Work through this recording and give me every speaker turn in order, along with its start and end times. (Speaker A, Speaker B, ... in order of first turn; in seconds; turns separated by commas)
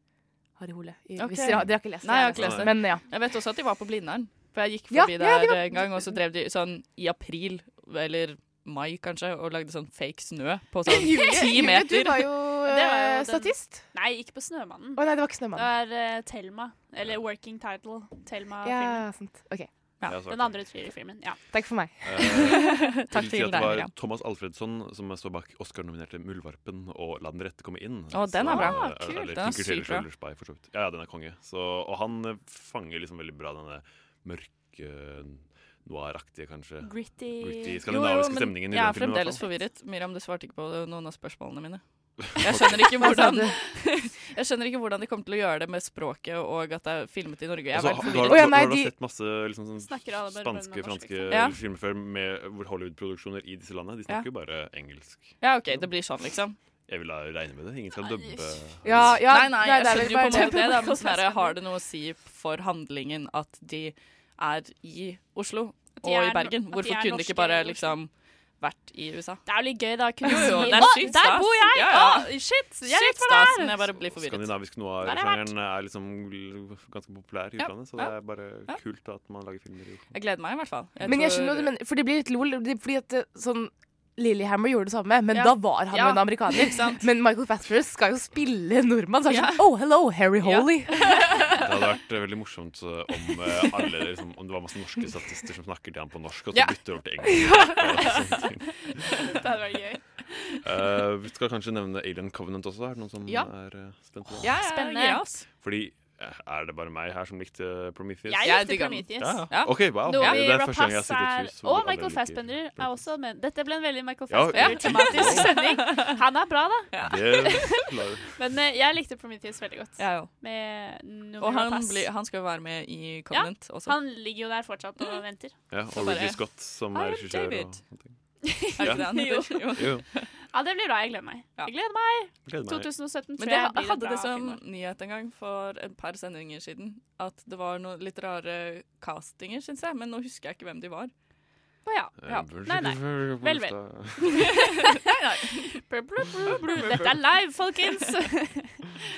Speaker A: 0.6-3.0, Speaker B: 1.2-12.5, Speaker C: 2.4-2.7, Speaker A: 4.9-6.2, Speaker A: 10.9-13.9, Speaker D: 12.7-19.0, Speaker A: 15.0-15.7, Speaker A: 18.6-19.7, Speaker C: 20.1-20.6, Speaker D: 20.3-21.4, Speaker A: 21.5-22.1, Speaker C: 22.0-39.4, Speaker B: 22.2-23.9, Speaker B: 28.1-30.1, Speaker D: 28.5-28.9, Speaker D: 36.8-37.8, Speaker B: 37.9-48.6, Speaker C: 42.4-42.9, Speaker A: 43.0-43.6, Speaker C: 47.7-55.9, Speaker A: 48.2-48.9, Speaker D: 49.8-51.4, Speaker B: 51.3-51.6, Speaker B: 55.4-56.6, Speaker C: 56.9-59.2, Speaker D: 58.1-58.7, Speaker A: 58.8-60.9, Speaker B: 59.3-69.4, Speaker D: 60.3-61.6, Speaker D: 66.0-68.0, Speaker D: 69.5-73.8, Speaker B: 70.2-74.5, Speaker C: 74.1-80.1, Speaker D: 75.0-75.5, Speaker B: 80.1-81.7, Speaker A: 81.0-91.1, Speaker B: 85.3-87.1, Speaker B: 89.3-89.7, Speaker B: 90.4-91.5, Speaker C: 91.4-99.0, Speaker B: 96.5-98.2, Speaker D: 99.3-100.6, Speaker C: 100.6-104.5, Speaker B: 104.4-105.4, Speaker D: 104.4-105.4, Speaker C: 105.6-108.6, Speaker D: 108.3-117.8, Speaker B: 108.4-110.5, Speaker C: 109.1-113.0, Speaker C: 114.3-115.5, Speaker B: 114.5-116.2, Speaker B: 116.9-117.2, Speaker C: 117.0-118.4, Speaker D: 118.3-122.1, Speaker B: 120.0-120.3, Speaker B: 121.4-124.0, Speaker D: 123.3-125.5, Speaker C: 125.7-128.1, Speaker B: 126.0-126.4, Speaker B: 126.9-127.8, Speaker D: 128.4-129.8, Speaker B: 128.8-130.3, Speaker C: 128.8-129.1, Speaker C: 129.8-130.1, Speaker D: 130.5-134.6, Speaker C: 132.5-132.9, Speaker B: 133.4-141.1, Speaker D: 141.9-144.6, Speaker C: 142.2-144.5, Speaker B: 144.3-145.8, Speaker D: 145.8-148.8, Speaker B: 146.4-147.2